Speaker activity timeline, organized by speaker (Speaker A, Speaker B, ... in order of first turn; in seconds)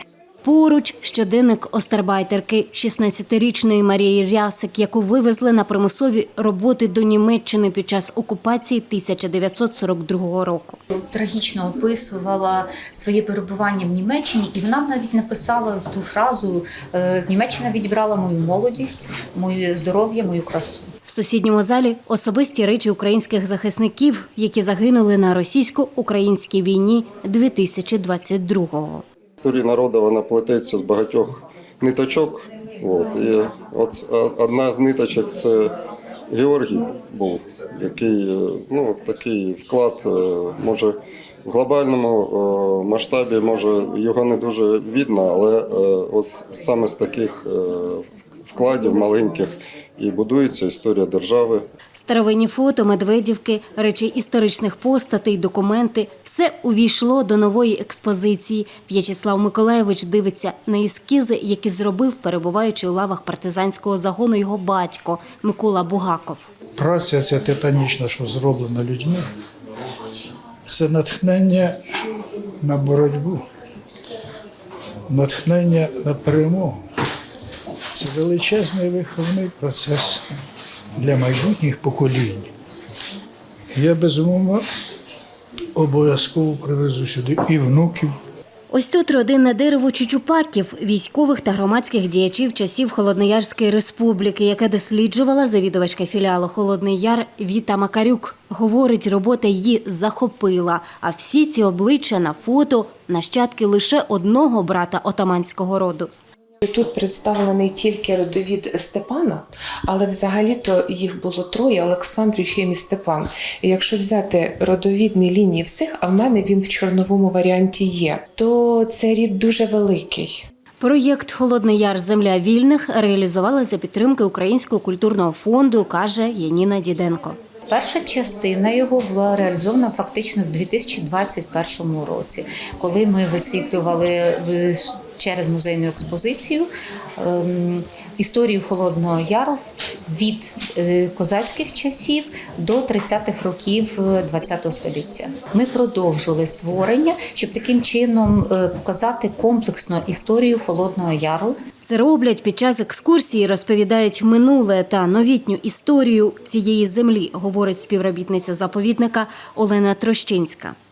Speaker A: 0.4-10.8, 21.1-29.0, 51.9-66.4, 88.7-106.1, 120.8-127.4, 151.8-160.8
Speaker B: 10.9-20.9, 127.7-151.6
Speaker C: 29.4-35.7, 36.3-51.6
Speaker D: 66.8-69.2, 70.7-71.7, 72.6-73.4, 75.1-76.8, 77.9-80.2, 81.0-82.5, 83.7-84.6, 85.7-88.1
Speaker E: 106.6-120.5